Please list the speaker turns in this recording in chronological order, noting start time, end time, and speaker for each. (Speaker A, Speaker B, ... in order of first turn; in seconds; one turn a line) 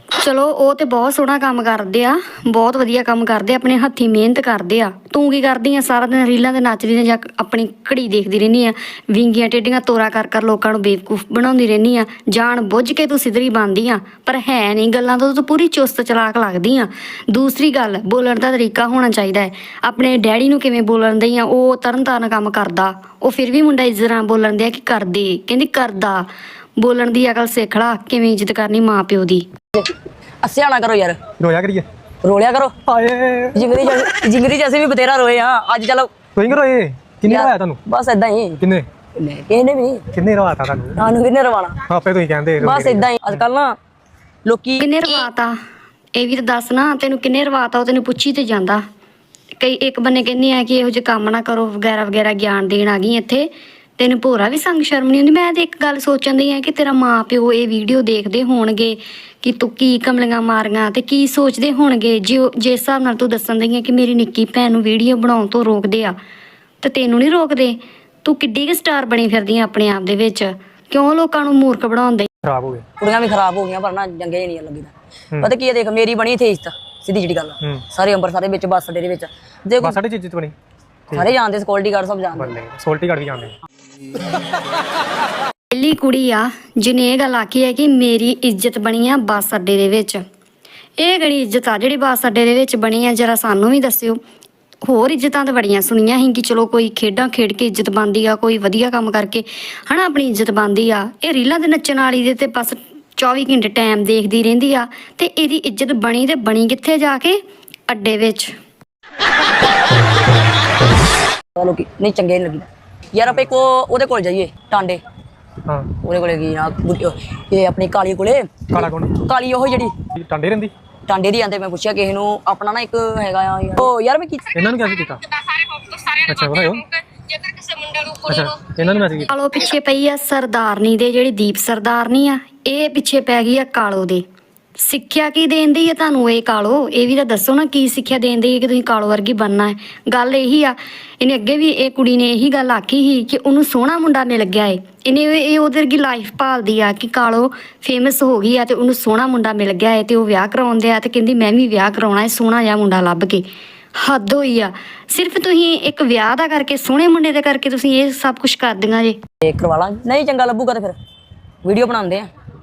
Speaker A: 0.2-26.3
Speaker A: 26.8-29.5
Speaker B: 30.4-31.2
Speaker C: 31.4-31.9
Speaker B: 32.2-32.7
Speaker C: 32.9-33.8
Speaker B: 33.5-36.1
Speaker C: 36.4-37.8
Speaker B: 37.3-38.6
Speaker C: 38.6-38.9
Speaker B: 39.2-40.0
Speaker C: 40.1-41.0
Speaker B: 41.0-41.8
Speaker C: 41.9-43.5
Speaker B: 42.6-43.8
Speaker B: 44.5-44.9
Speaker A: 44.8-45.5
Speaker A: 46.1-48.8
Speaker A: 49.6-66.2
Speaker A: 66.8-72.3
Speaker C: 72.5-72.8
Speaker B: 73.0-80.0
Speaker C: 79.8-80.5
Speaker B: 81.1-82.5
Speaker C: 82.3-83.5
Speaker A: 85.7-90.2
Speaker A: 91.0-94.2
Speaker A: 94.9-108.5
Speaker B: 111.6-115.0
Speaker B: 116.0-119.9
Speaker C: 118.7-119.3
Speaker C: 120.2-120.7
Speaker B: 121.1-124.5
Speaker C: 124.5-125.2
Speaker C: 126.1-126.9
Speaker C: 128.0-129.3
Speaker A: 129.2-134.2
Speaker A: 134.8-159.2
Speaker B: 159.4-161.0
Speaker B: 161.6-162.3